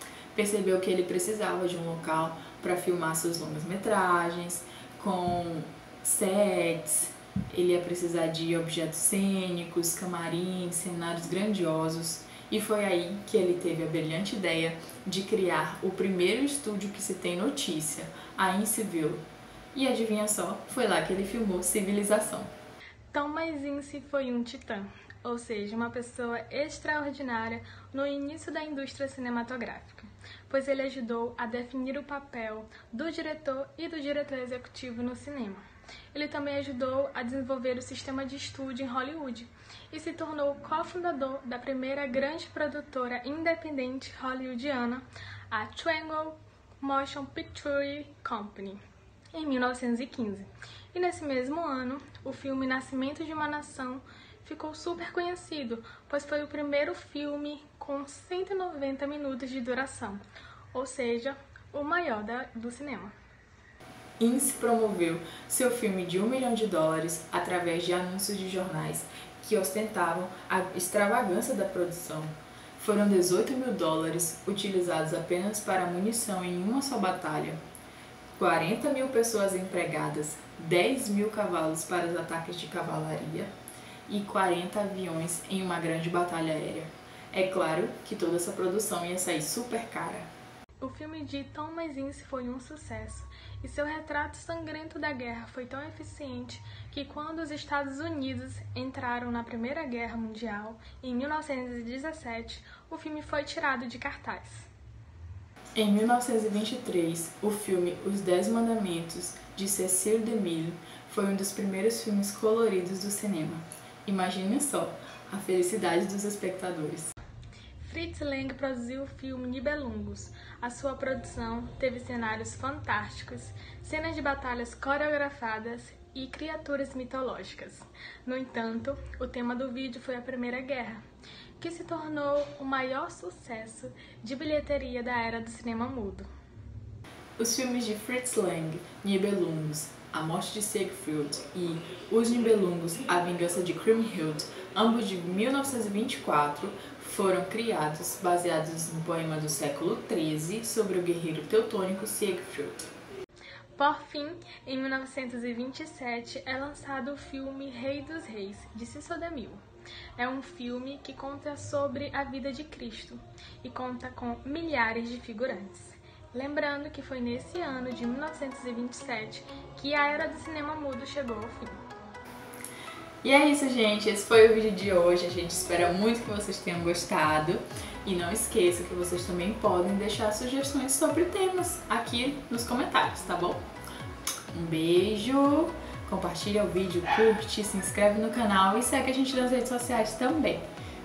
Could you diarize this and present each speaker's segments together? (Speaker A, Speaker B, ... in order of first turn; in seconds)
Speaker A: 0.3-19.2, 19.7-22.5, 64.2-77.6, 78.4-83.5, 84.1-90.3, 105.8-117.1, 137.4-152.8, 173.2-183.6, 184.5-190.7
Speaker B: 23.1-48.8, 49.3-60.2, 60.7-63.1, 90.8-104.7, 117.8-131.0, 131.6-136.3, 153.8-159.6, 160.2-171.8